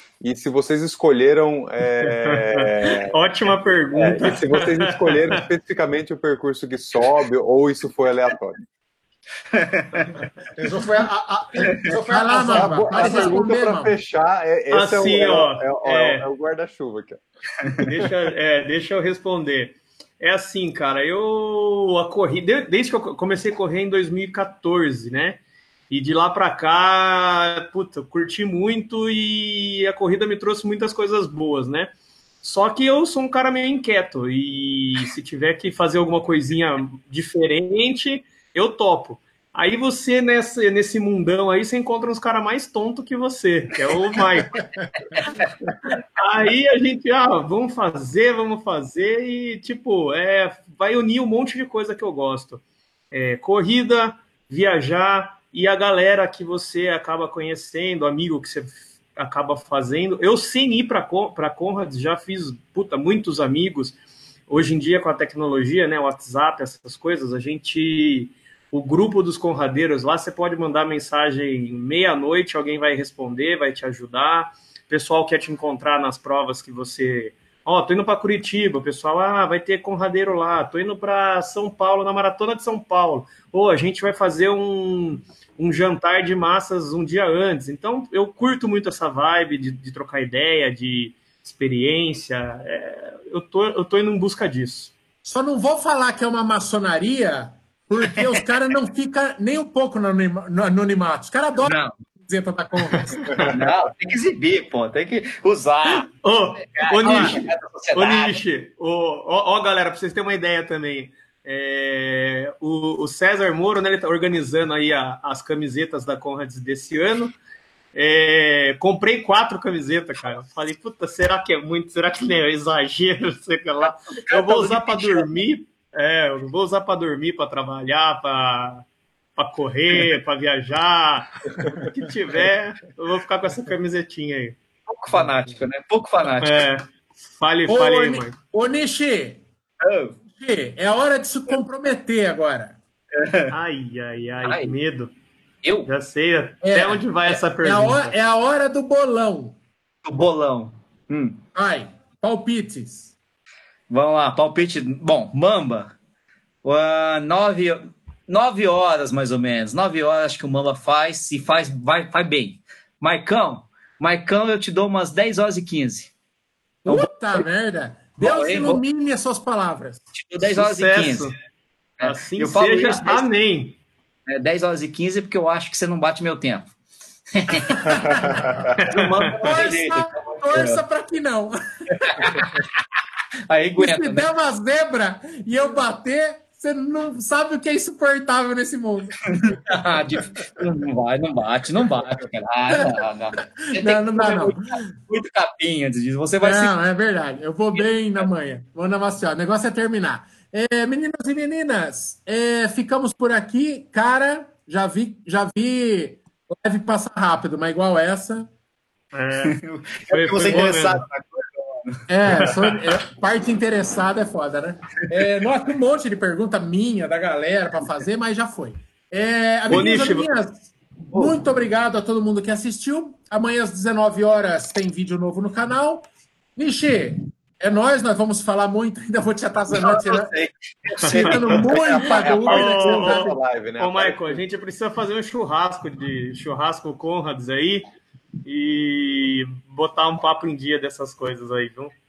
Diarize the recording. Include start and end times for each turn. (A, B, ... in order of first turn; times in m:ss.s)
0:00.2-0:03.1 A
0:02.0-0:05.4 B
0:03.9-0:08.6 A
0:09.5-0:10.2 C
0:10.6-0:13.4 D
0:11.6-0:11.9 C
0:12.1-0:13.9 E
0:12.5-0:17.2 A
0:14.7-0:16.2 B
0:17.8-0:44.6 B
0:44.6-0:44.8 D
0:45.1-0:45.5 C
0:45.9-1:04.0 B
1:04.5-1:34.9 B
1:35.2-1:43.5 E
1:41.6-1:41.9 C
1:43.2-1:43.5 B
1:43.4-1:48.4 C
1:45.8-1:57.4 B
1:47.0-1:47.4 E
1:57.9-2:14.6 B
2:04.1-2:05.2 C
2:14.9-2:16.6 C
2:16.4-2:18.3 B
2:17.7-2:19.4 E
2:19.8-2:20.2 C
2:20.4-2:22.8 E
2:23.2-2:23.5 C
2:23.5-2:25.1 B
2:24.4-2:24.7 C
2:25.6-2:25.9 C
2:25.8-2:28.1 B
2:26.6-2:29.6 E
2:30.0-2:31.4 C
2:31.5-2:33.1 E
2:33.9-2:35.9 C
2:36.6-2:46.1 C
2:46.8-2:50.0 E
2:46.8-2:47.4 C
2:48.2-2:48.8 C
2:50.1-2:51.3 C
2:50.4-2:51.3 B
2:52.0-2:53.3 C
2:52.0-2:53.8 B
2:54.3-2:56.7 C
2:57.3-3:00.8 C
2:57.6-2:58.5 E
2:58.8-2:59.3 B
2:59.4-3:02.6 E
3:02.1-3:02.6 C
3:03.5-3:04.3 C
3:03.8-3:09.7 E
3:09.3-3:16.8 C
3:12.7-3:14.8 E
3:16.4-3:28.5 E
3:29.1-3:29.6 B
3:29.4-3:32.5 C
3:30.1-3:31.0 B
3:32.1-3:50.3 E
3:39.7-3:40.3 B
3:49.7-3:52.4 C
3:51.1-3:51.5 B
3:51.1-3:53.3 E
3:51.7-3:54.4 A
3:52.2-3:57.9 B
3:58.4-4:01.9 B